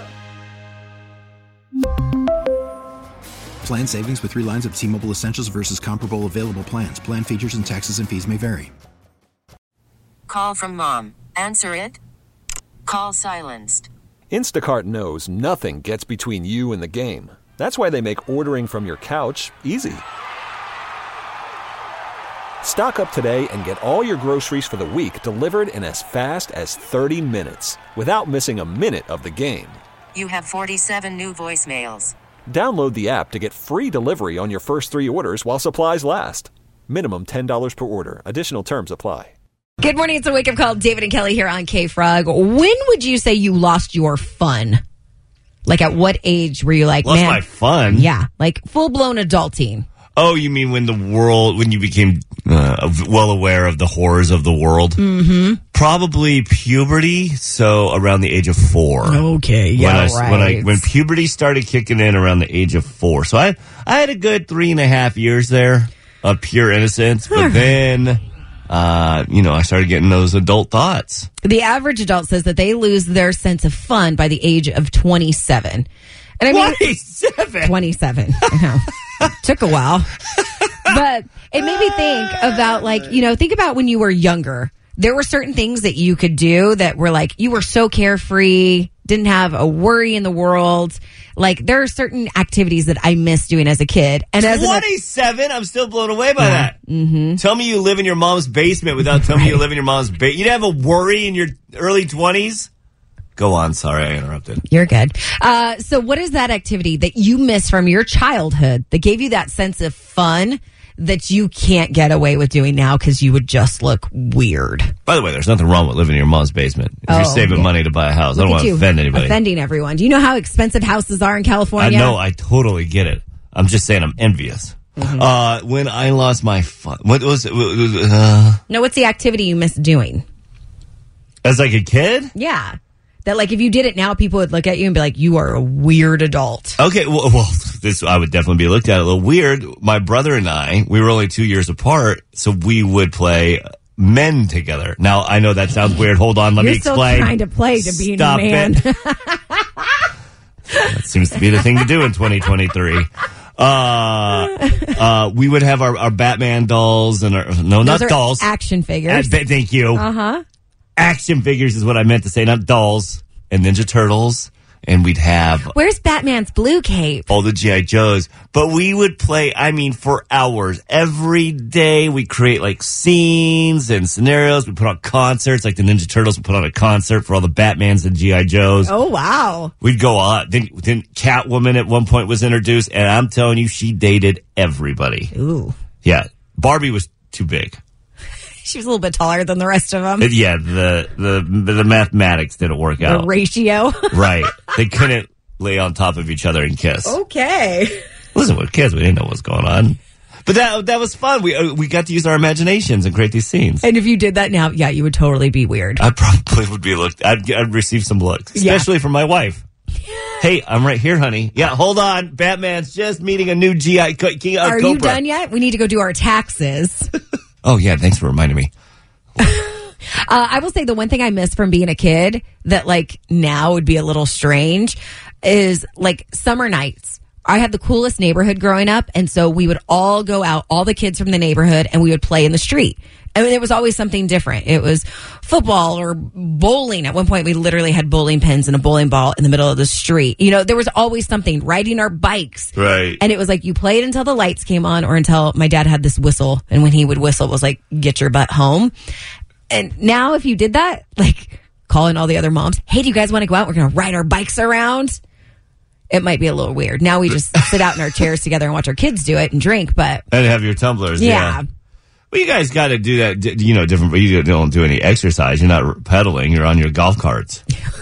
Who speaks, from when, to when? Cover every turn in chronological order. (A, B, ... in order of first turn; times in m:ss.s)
0:03.6-0:08.7 A
0:10.3-0:12.0 B
0:12.9-0:13.9 B
0:14.3-0:20.0 C
0:22.6-0:29.8 C
0:30.1-0:32.2 B
0:32.5-0:39.3 C
0:39.8-0:44.8 D
0:45.6-0:49.9 D
0:47.0-0:48.1 E
0:50.2-0:55.0 E
0:55.0-0:55.6 D
0:55.7-0:59.2 E
0:59.0-1:00.9 D
0:59.8-1:11.3 E
1:07.3-1:07.6 D
1:11.4-1:15.9 D
1:16.4-1:16.8 D
1:16.5-1:17.8 E
1:17.6-1:20.1 D
1:20.4-1:20.9 E
1:20.9-1:34.8 D
1:34.4-1:36.8 E
1:36.4-1:37.4 D
1:37.4-1:42.7 E
1:39.2-1:39.6 D
1:43.4-1:44.6 E
1:44.7-1:54.9 D
1:55.1-1:59.4 E
1:57.1-1:57.7 D
1:58.4-2:02.2 D
2:01.8-2:08.6 E
2:05.0-2:05.3 D
2:08.7-2:10.2 D
2:11.4-2:12.3 E
2:12.3-2:16.8 D
2:16.8-2:28.7 E
2:26.6-2:30.1 D
2:30.9-2:38.5 E
2:37.8-2:39.4 D
2:39.1-2:40.0 E
2:40.0-2:40.4 D
2:41.0-2:45.7 E
2:45.7-2:47.3 D
2:47.3-2:58.9 E
2:58.8-2:59.7 D
2:59.8-3:05.3 E
3:05.3-3:05.8 D
3:06.0-3:07.8 E
3:08.6-3:10.3 D
3:10.2-3:13.3 E
3:13.0-3:14.3 D
3:14.1-3:17.2 E
3:17.0-3:18.0 D
3:18.4-3:23.8 E
3:23.8-3:26.0 D
3:26.0-3:29.6 E
3:28.6-3:28.9 D
3:30.1-3:30.4 D
3:30.4-3:35.2 E
3:34.6-3:37.1 D
3:37.6-3:38.7 E
3:39.4-4:08.9 D
4:02.8-4:03.2 E
4:09.7-4:15.2 D
4:16.1-4:20.2 D
4:20.3-4:21.6 E
4:21.2-4:21.6 D
4:22.3-4:27.6 E